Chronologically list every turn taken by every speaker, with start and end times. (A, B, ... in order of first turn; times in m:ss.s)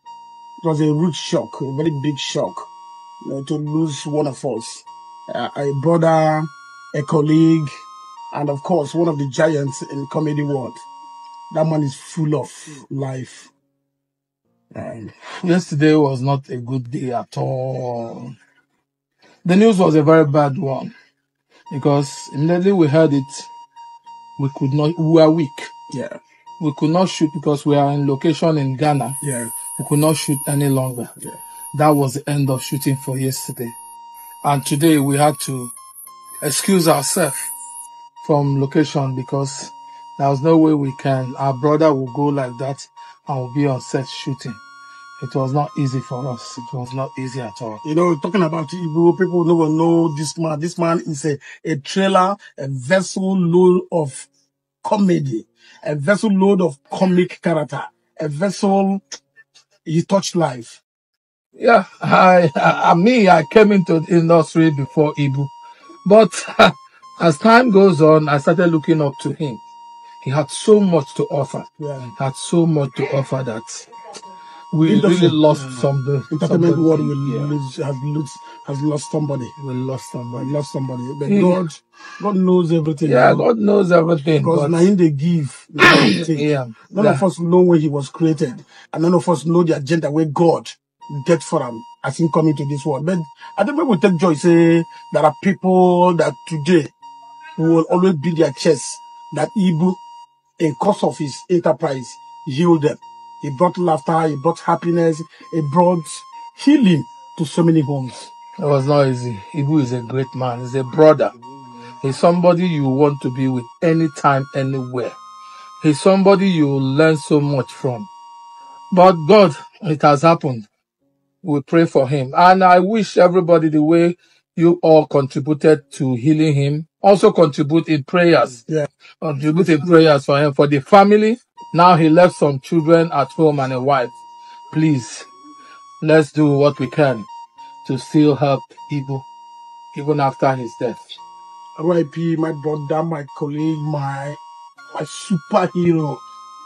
0:00.6-0:02.7 A
0:03.2-0:07.7 A
0:08.3-0:10.8 A
0:11.5-0:13.5 A
0:14.7-0:15.1 A
0:15.2-0:18.4 B
0:19.4-0:20.9 B
0:21.7-0:23.5 B
0:24.4-0:25.7 B
0:25.9-0:26.2 A
0:26.6-0:29.2 B
0:29.2-0:29.6 A
0:29.7-0:31.1 B
0:31.7-0:33.7 B
0:34.4-0:35.7 B
0:36.4-0:37.5 B
0:38.2-0:44.6 B
0:45.2-0:47.8 B
0:47.8-0:54.3 A
0:54.8-0:59.0 A
0:59.8-1:00.8 A
1:01.6-1:05.5 B
1:06.0-1:09.6 B
1:10.2-1:13.9 B
1:11.8-1:12.1 A
1:14.7-1:17.6 B
1:14.8-1:19.5 A
1:19.6-1:20.5 B
1:20.3-1:23.5 A
1:21.3-1:21.6 B
1:23.0-1:24.9 B
1:24.4-1:36.9 A
1:25.9-1:27.2 B
1:37.6-1:40.0 A
1:40.6-1:48.3 A
1:48.6-1:51.3 B
1:52.0-1:55.2 B
1:55.8-1:58.1 B
1:58.9-2:00.7 B
2:01.4-2:08.6 B
2:09.2-2:14.1 B
2:14.7-2:15.3 B
2:16.0-2:17.3 B
2:17.8-2:19.2 B
2:19.9-2:21.1 B
2:21.8-2:24.4 A
2:24.9-2:26.2 A